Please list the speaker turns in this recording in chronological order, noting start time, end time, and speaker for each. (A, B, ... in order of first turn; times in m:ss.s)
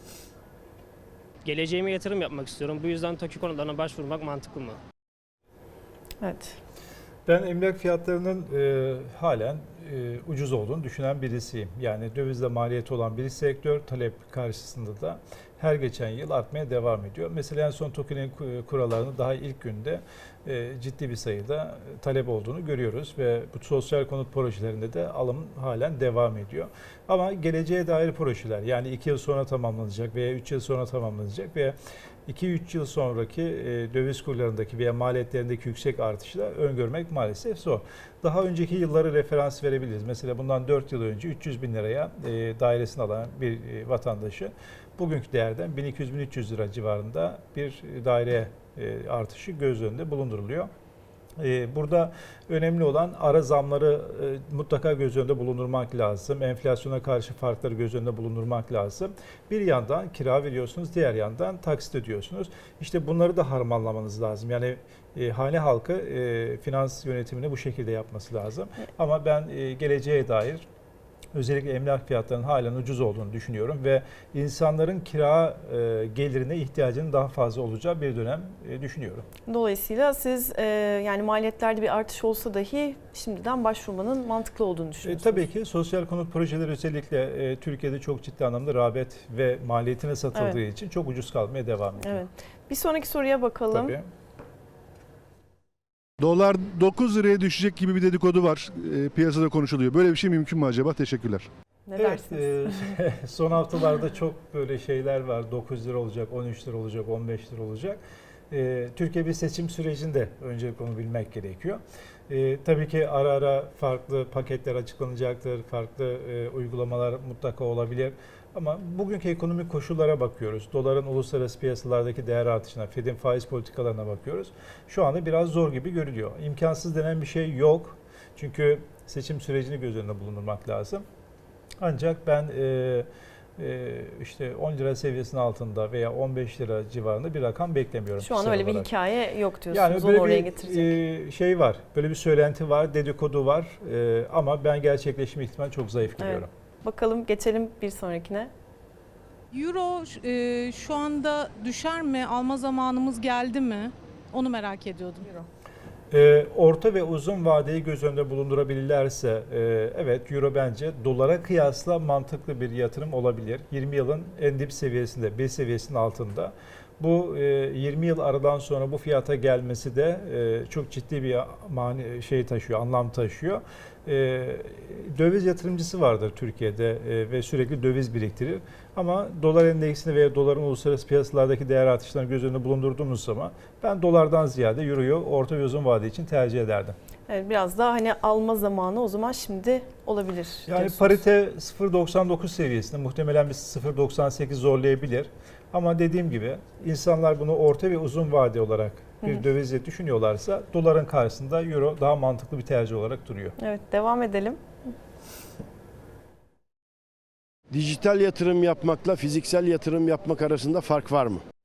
0:01.4-0:04.8 A
0:06.2-0:06.6 B
0:07.3-0:31.8 C
0:32.3-0:50.7 C
0:51.4-1:10.7 C
1:11.3-1:19.3 C
1:19.5-1:25.5 B
1:25.0-1:32.3 C
1:32.0-1:34.0 B
1:33.7-1:34.1 C
1:36.2-1:41.5 D
1:41.9-1:43.0 B
1:42.0-2:11.0 C
2:11.8-2:18.9 C
2:18.2-2:20.9 B
2:19.7-2:26.5 C
2:26.2-2:28.5 B
2:29.5-2:35.4 E
2:36.1-3:07.0 C
3:07.3-3:11.2 B
3:10.7-3:23.6 C
3:23.6-3:24.6 B
3:27.7-3:31.4 F